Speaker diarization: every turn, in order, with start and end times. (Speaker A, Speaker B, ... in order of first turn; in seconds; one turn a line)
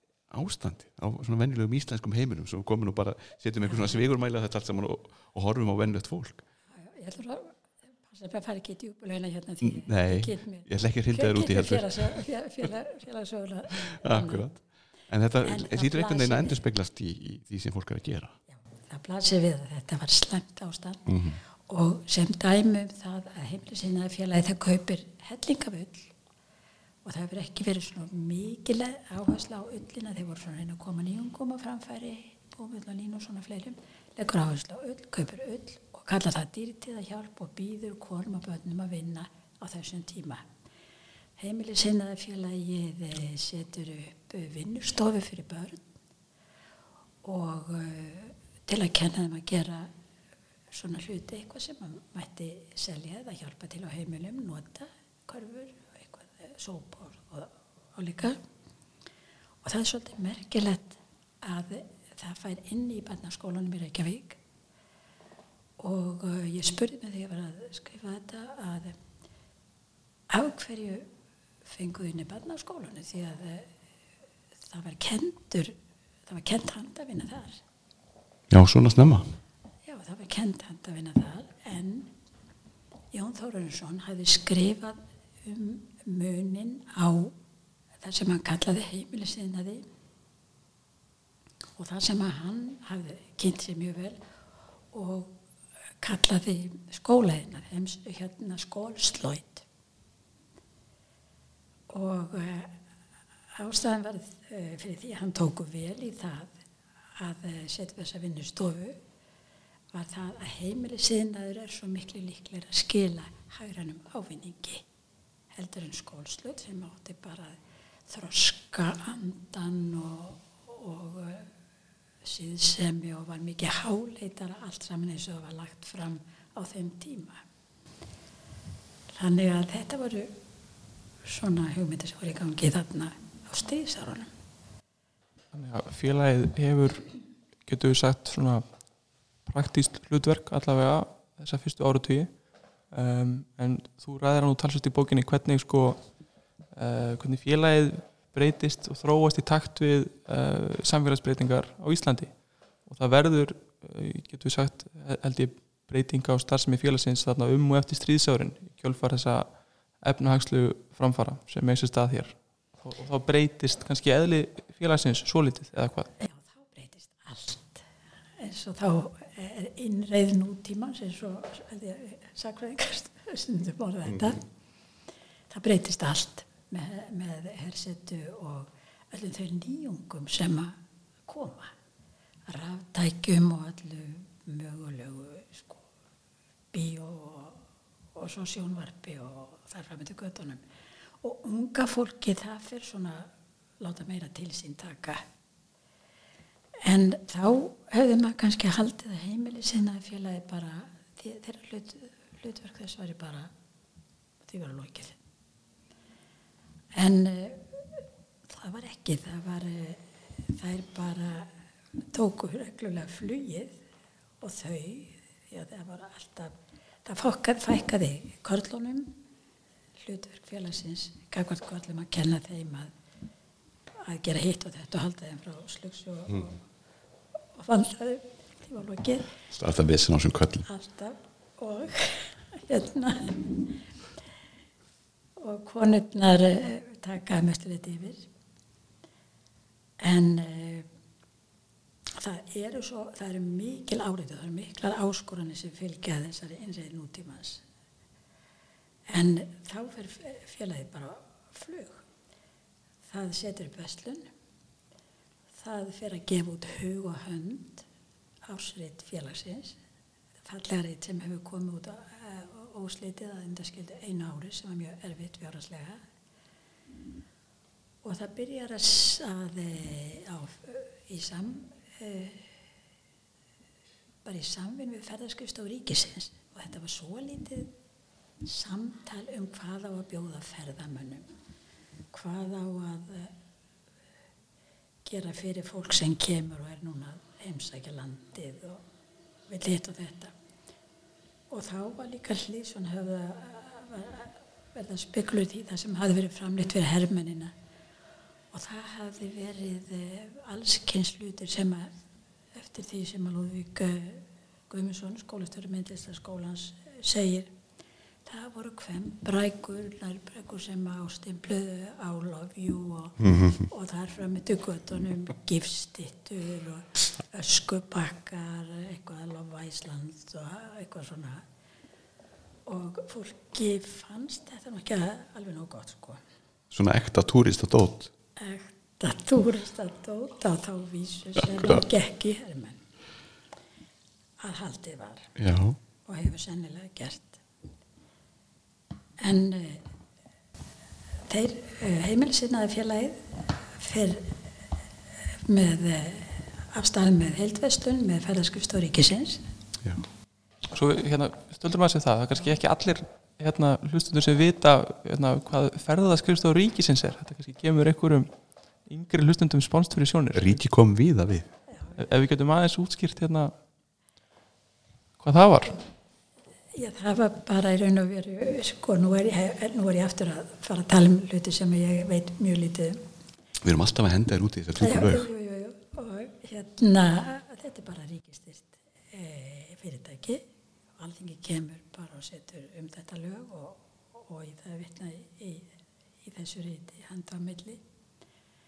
Speaker A: 0.3-6.4
Speaker B: 6.7-14.5
Speaker A: 9.6-12.3
Speaker A: 13.8-18.4
Speaker B: 15.4-16.6
Speaker B: 18.5-26.1
Speaker A: 21.1-21.4
Speaker B: 27.0-40.5
Speaker B: 41.4-45.9
Speaker B: 47.2-49.9
Speaker B: 50.7-58.4
Speaker B: 59.6-64.4
Speaker B: 65.8-69.0
Speaker B: 70.3-71.1
Speaker B: 71.7-73.8
Speaker B: 74.7-77.6
Speaker A: 78.5-79.3
Speaker B: 79.8-82.1
Speaker B: 83.1-87.4
Speaker B: 88.0-89.9
Speaker B: 91.8-94.2
Speaker B: 94.9-95.4
Speaker B: 96.0-99.7
Speaker B: 101.9-102.8
Speaker B: 103.5-106.6
Speaker B: 107.2-109.0
Speaker B: 109.9-114.8
Speaker B: 115.5-121.5
Speaker B: 122.2-127.4
Speaker B: 129.2-130.4
Speaker B: 131.2-134.3
Speaker C: 135.5-137.1
Speaker C: 137.6-138.9
Speaker C: 139.4-166.1
Speaker B: 166.2-167.9
Speaker B: 168.4-174.4
Speaker A: 174.1-174.3
Speaker B: 175.5-181.7
Speaker B: 182.5-185.8
Speaker B: 186.7-187.6
Speaker B: 188.2-190.6
Speaker B: 191.2-195.2
Speaker B: 196.8-203.5
Speaker B: 204.4-205.2
Speaker B: 206.9-211.5
Speaker B: 212.1-213.8
Speaker B: 214.4-219.2
Speaker B: 220.0-222.9
Speaker B: 224.0-226.6
Speaker B: 227.5-229.3
Speaker A: 229.5-230.7
Speaker B: 230.7-233.6
Speaker B: 235.4-238.3
Speaker B: 240.0-240.9
Speaker B: 242.2-247.6
Speaker B: 249.1-252.1
Speaker B: 253.1-254.3
Speaker B: 255.5-257.9
Speaker B: 258.5-259.8
Speaker B: 260.4-266.0
Speaker B: 268.0-272.6
Speaker B: 274.2-277.7
Speaker B: 278.4-281.3
Speaker B: 282.1-283.3
Speaker B: 285.1-288.8
Speaker B: 289.5-290.3
Speaker B: 291.5-297.5
Speaker B: 298.5-301.9
Speaker B: 302.5-307.5
Speaker B: 308.3-321.4
Speaker A: 313.2-313.6
Speaker B: 322.7-326.2
Speaker A: 326.7-328.1
Speaker B: 328.4-332.9
Speaker A: 331.4-331.8
Speaker B: 334.4-335.4
Speaker A: 335.4-335.8
Speaker B: 336.1-337.4
Speaker B: 339.2-339.9
Speaker B: 341.3-344.4
Speaker B: 345.3-349.4
Speaker C: 350.7-358.3
Speaker C: 358.9-360.6
Speaker A: 360.3-361.5
Speaker B: 361.7-362.0
Speaker C: 362.0-363.5
Speaker C: 365.2-365.8
Speaker B: 366.7-373.1
Speaker A: 373.6-375.3
Speaker B: 374.8-380.4
Speaker B: 381.0-387.8